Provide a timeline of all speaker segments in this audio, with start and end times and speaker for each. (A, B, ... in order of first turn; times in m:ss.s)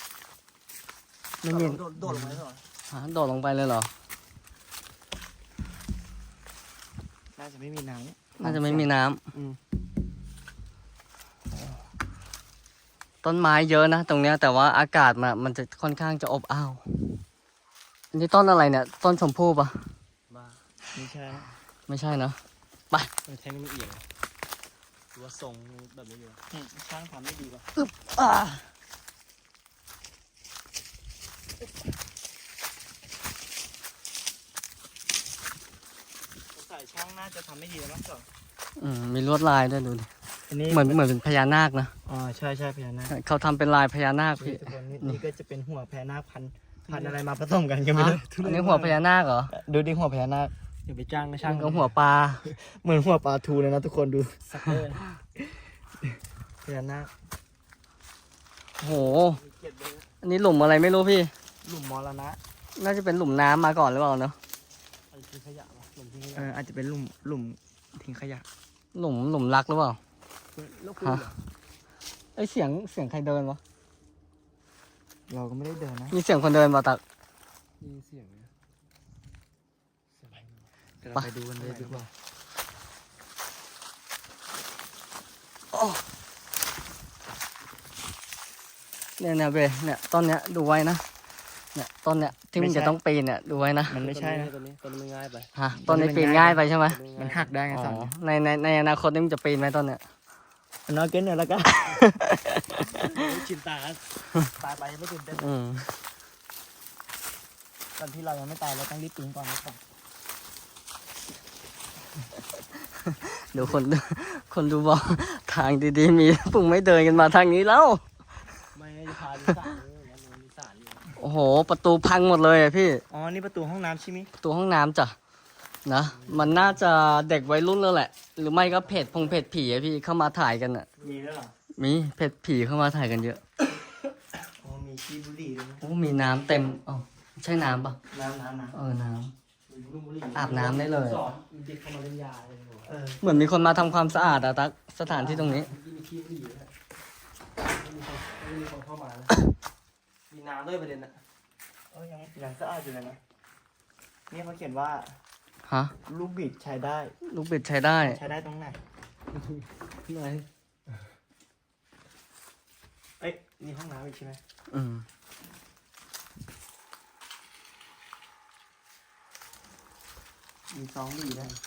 0:01.4-0:01.8 A
0:01.5-0:02.5 B
0:01.7-0:02.5 C
0:02.9-0:03.9 A
0:07.4-0:09.6 B
0:08.4-0:09.2 A
0:13.2-0:17.0 A
0:18.1-0:19.8 A
0:20.3-0:20.6 C
0:20.9-0:21.5 B
0:21.9-0:22.4 A
0:23.3-0:24.0 C
0:25.1-0:26.4 C
0:26.5-0:27.7 B
0:27.8-0:28.6 A
0:36.5-0:38.3 B
0:38.8-0:40.1 A
0:40.5-0:41.0 B
0:40.7-0:41.9 A
0:42.0-0:43.1 B
0:43.1-0:45.2 A
0:44.4-0:48.9 B
0:46.9-0:47.2 C
0:47.9-0:49.5 A
0:48.3-0:48.8 C
0:49.5-0:50.5 B
0:50.8-0:52.0 C
0:51.4-0:52.4 A
0:52.5-0:54.4 B
0:54.5-0:55.0 C
0:56.6-0:57.1 B
0:58.8-0:59.4 A
0:59.3-1:00.1 C
1:00.2-1:01.3 A
1:01.6-1:02.4 B
1:02.8-1:04.4 A
1:05.1-1:06.6 C
1:06.3-1:08.4 B
1:08.9-1:10.0 A
1:10.5-1:11.4 C
1:12.4-1:13.6 A
1:15.3-1:16.2 B
1:16.1-1:17.0 A
1:17.8-1:18.5 C
1:20.2-1:20.6 C
1:21.0-1:22.1 B
1:21.1-1:22.0 A
1:25.7-1:26.0 A
1:29.2-1:31.0 A
1:31.7-1:34.0 A
1:32.5-1:33.0 B
1:33.9-1:34.5 B
1:34.0-1:35.5 C
1:35.6-1:37.0 A
1:35.7-1:36.6 B
1:36.9-1:37.5 C
1:37.1-1:38.1 B
1:37.7-1:40.0 A
1:40.9-1:42.2 B
1:41.9-1:42.8 A
1:42.9-1:45.5 C
1:45.4-1:45.9 A
1:48.0-1:49.8 B
1:53.0-1:58.0 A
1:53.6-1:53.8 C
1:58.7-2:01.2 C
2:01.2-2:03.0 A
2:03.1-2:04.3 B
2:04.4-2:05.2 A
2:05.8-2:10.9 A
2:06.1-2:06.8 C
2:08.7-2:09.4 C
2:11.0-2:11.5 B
2:11.8-2:13.4 A
2:14.6-2:15.8 B
2:15.8-2:18.0 A
2:18.1-2:18.8 B
2:18.7-2:19.3 A
2:19.7-2:22.9 C
2:20.3-2:21.3 A
2:22.9-2:23.2 B
2:23.2-2:25.7 A
2:25.0-2:26.7 C
2:27.7-2:29.3 C
2:30.3-2:31.2 C
2:31.9-2:33.2 B
2:34.3-2:35.2 B
2:35.6-2:35.9 A
2:36.0-2:37.1 B
2:37.2-2:38.2 A
2:38.0-2:38.8 B
2:39.3-2:41.0 C
2:43.2-2:44.4 B
2:44.7-2:45.0 A
2:50.7-2:51.5 B